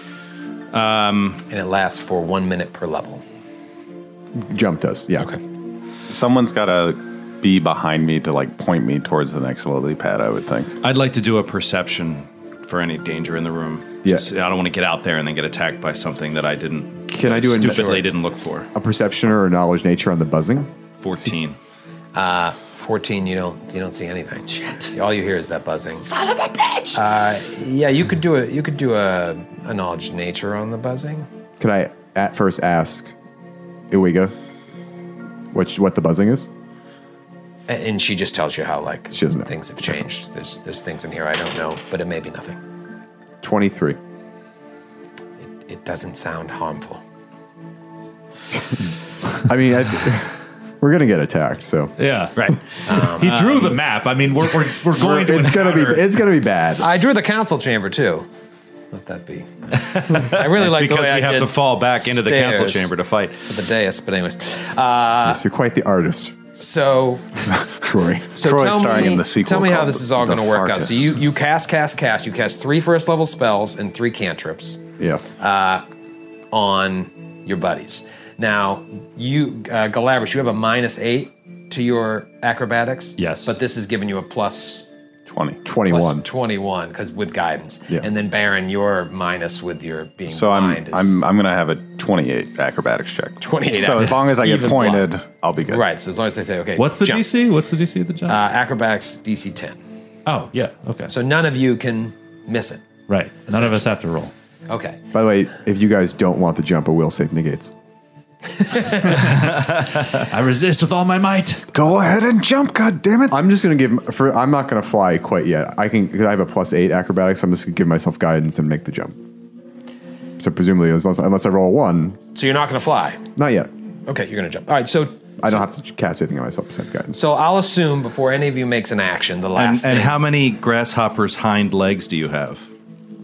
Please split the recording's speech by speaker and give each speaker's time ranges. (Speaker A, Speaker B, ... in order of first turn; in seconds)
Speaker A: 0.7-1.4, 10.8-18.7, 21.0-21.6, 53.2-53.8, 59.7-63.5, 109.3-110.1, 129.6-132.7
Speaker B: 1.5-3.2, 22.1-26.1, 26.9-31.3, 37.7-42.6, 45.5-47.0, 52.8-53.5, 56.8-58.3, 58.9-62.9, 63.4-65.4, 66.5-67.2, 68.3-74.8, 75.4-75.8, 76.5-84.9, 85.8-91.2, 93.4-95.1, 95.7-97.3, 98.3-99.8, 101.1-102.8, 103.5-103.8, 104.7-105.0, 122.3-123.2, 124.1-125.6, 127.1-130.2
Speaker C: 4.3-5.3, 17.1-18.1, 18.7-20.7, 31.6-33.1, 33.9-34.3, 35.5-36.5, 39.1-39.5, 43.4-44.0, 49.4-51.9, 54.9-56.9, 65.2-66.3, 67.8-68.3, 75.0-75.3, 85.6-86.2, 105.1-107.7, 113.3-119.2, 120.4-122.2, 123.3-123.7, 125.4-127.2
Speaker D: 6.1-10.7, 68.4-71.1, 85.3-85.6, 90.3-95.8, 111.7-113.4
Speaker E: 52.0-56.1, 83.2-83.5, 96.8-98.4, 100.2-101.1, 103.1-104.3, 109.0-109.6, 110.2-111.7